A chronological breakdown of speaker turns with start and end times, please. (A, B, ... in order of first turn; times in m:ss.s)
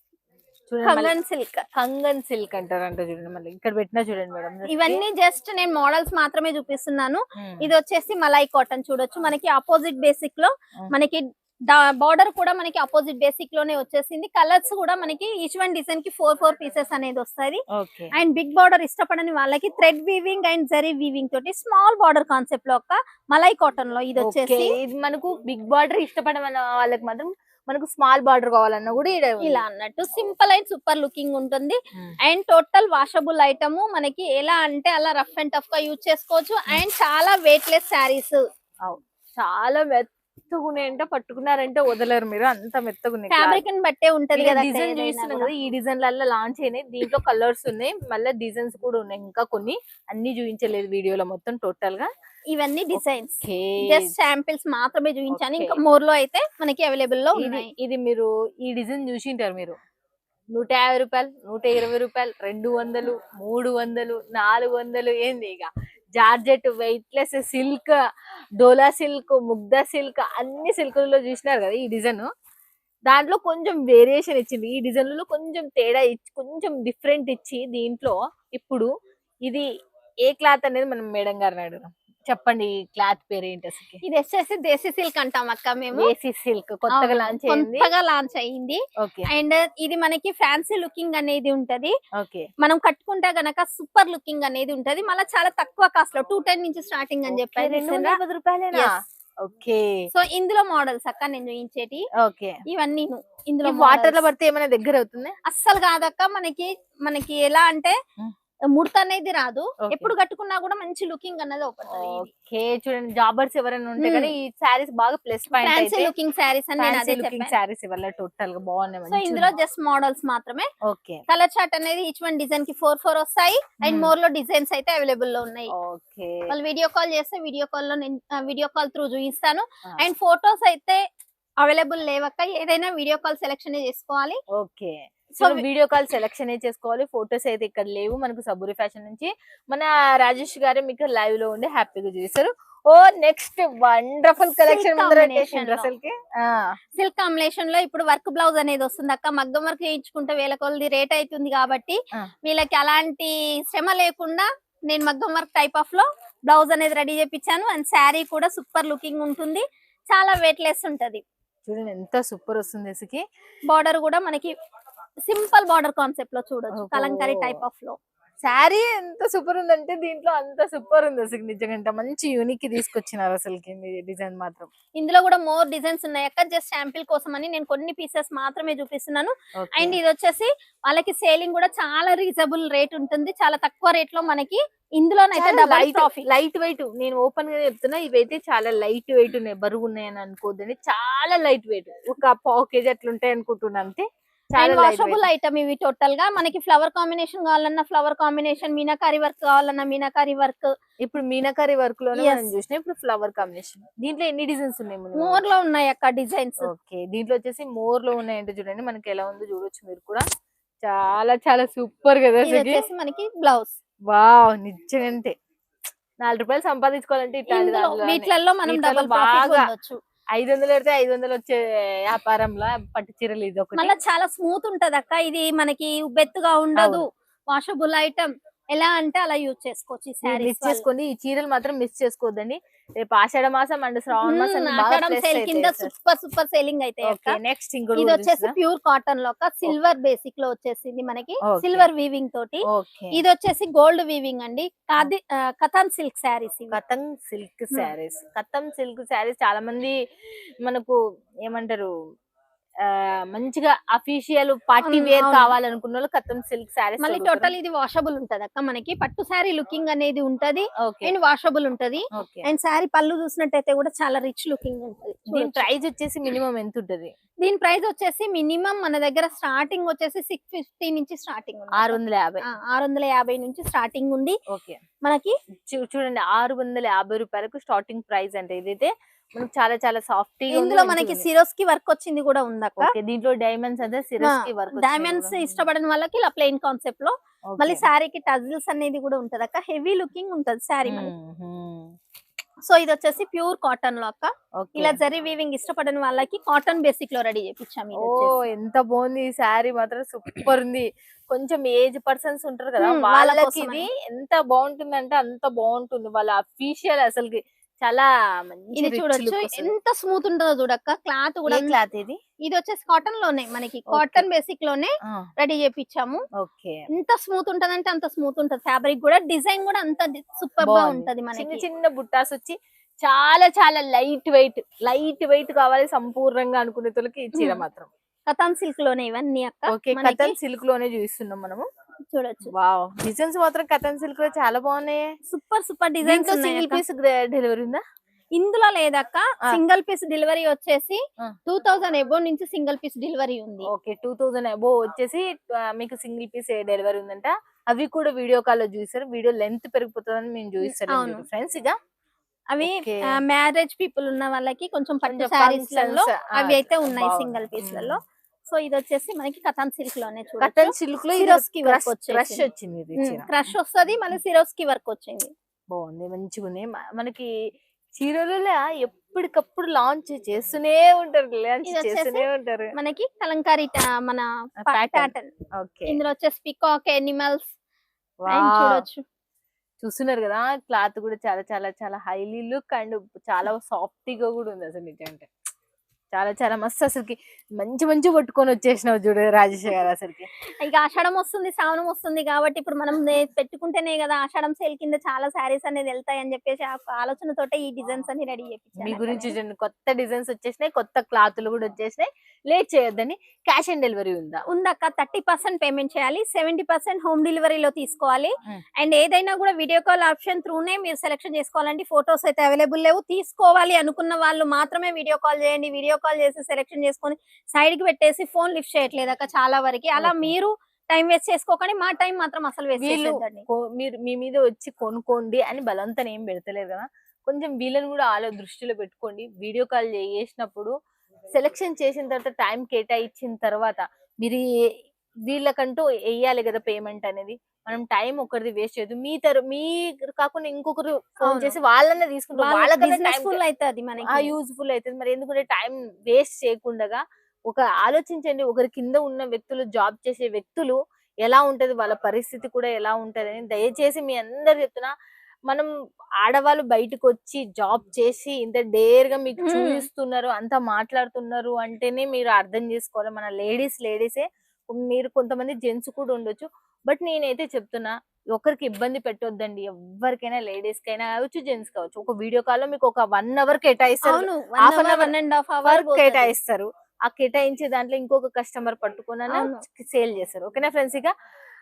0:00.7-0:01.1 A
0:00.8-0:01.7 B
0:01.8-0:05.0 A
0:04.7-0:17.6 B
0:07.4-0:07.7 A
0:17.7-0:18.1 A
0:18.2-0:24.8 B
0:24.2-0:29.6 A
0:29.4-0:38.4 B
0:38.8-0:43.6 A
0:43.3-0:45.5 B
0:44.4-0:52.1 A
0:52.5-0:57.7 B
0:53.0-0:54.1 A
0:55.3-0:55.8 A
0:57.4-0:59.8 A
1:00.6-1:08.0 A
1:08.6-1:12.3 A
1:13.1-1:18.9 A
1:20.3-1:24.0 A
1:24.0-1:26.1 B
1:25.9-1:27.9 A
1:26.9-1:32.0 B
1:29.0-1:29.3 A
1:32.2-1:32.5 A
1:32.6-1:38.2 B
1:37.3-1:40.1 A
1:40.1-1:42.1 B
1:42.2-1:42.6 A
1:42.7-1:44.2 B
1:43.6-1:45.4 A
1:45.5-1:48.0 B
1:48.7-1:52.3 B
1:51.9-1:56.1 A
1:54.0-1:54.3 B
1:55.6-1:57.5 B
1:56.8-1:59.5 A
1:59.1-2:00.7 B
2:00.8-2:01.2 A
2:01.3-2:05.7 B
2:03.8-2:04.2 A
2:05.7-2:06.6 A
2:06.5-2:11.0 B
2:11.6-2:14.4 B
2:14.5-2:26.7 A
2:15.4-2:15.6 B
2:24.7-2:25.9 B
2:27.0-2:41.2 B
2:41.7-2:43.2 A
2:43.7-2:44.5 B
2:45.3-2:48.0 B
2:46.8-2:47.5 A
2:48.4-2:54.7 A
2:55.0-3:06.3 B
2:59.6-3:00.0 A
3:05.3-3:14.0 A
3:14.6-3:15.3 A
3:14.6-3:20.7 B
3:21.0-3:25.5 A
3:22.2-3:22.5 B
3:25.2-3:26.7 B
3:26.6-3:30.2 A
3:30.8-3:32.8 A
3:32.4-3:33.8 B
3:34.1-3:35.3 A
3:36.2-3:39.7 A
3:37.5-3:40.0 B
3:40.4-3:43.9 A
3:43.8-3:50.8 B
3:46.8-3:47.0 A
3:50.2-3:55.9 A
3:54.2-3:57.4 B
3:57.0-3:58.6 A
3:58.0-4:02.6 B
4:01.4-4:01.9 A
4:02.7-4:03.2 A
4:03.1-4:06.8 B
4:06.7-4:10.0 A
4:10.6-4:11.9 A
4:12.8-4:17.5 A
4:14.8-4:15.5 B
4:17.0-4:25.7 B
4:20.8-4:21.1 A
4:22.1-4:22.5 A
4:25.3-4:27.1 A
4:27.4-4:34.4 B
4:31.8-4:32.4 A
4:34.5-4:34.8 A
4:35.0-4:35.4 B
4:35.6-4:41.3 A
4:40.5-4:42.9 B
4:42.8-4:45.7 A
4:44.2-4:51.1 B
4:47.5-4:47.8 A
4:50.9-4:52.0 A
4:52.6-4:58.4 B
4:54.6-4:55.0 A
4:58.0-5:09.7 A
5:02.8-5:03.9 B
5:08.8-5:11.8 B
5:11.5-5:12.2 A
5:12.4-5:16.2 B
5:13.9-5:14.2 A
5:16.4-5:16.8 A
5:16.9-5:21.6 B
5:20.6-5:27.9 A
5:27.3-5:27.6 B
5:28.3-5:30.4 B
5:29.7-5:31.6 A
5:32.1-5:32.5 B
5:32.5-5:35.1 A
5:35.3-5:36.8 B
5:36.0-5:37.8 A
5:38.4-5:43.7 B
5:43.7-5:51.8 A
5:50.6-5:51.2 B
5:52.5-6:02.4 B
5:52.6-5:53.1 A
5:55.1-5:58.0 A
6:00.4-6:03.4 A
6:03.0-6:05.3 B
6:05.7-6:07.3 A
6:08.0-6:12.7 A
6:11.6-6:15.3 B
6:14.6-6:16.0 A
6:15.9-6:17.5 B
6:18.3-6:18.8 A
6:18.3-6:19.0 B
6:19.8-6:25.3 A
6:26.1-6:30.3 A
6:30.6-6:39.4 B
6:38.8-6:44.4 A
6:44.5-7:03.5 B
7:00.0-7:00.3 A
7:02.8-7:10.7 A
7:11.3-7:14.4 A
7:15.3-7:23.4 A
7:21.3-7:21.6 B
7:22.4-7:24.3 B
7:24.1-7:34.9 A
7:36.2-7:55.1 A
7:39.4-7:39.8 B
7:54.0-7:56.3 B
7:55.7-8:01.1 A
7:59.3-7:59.6 B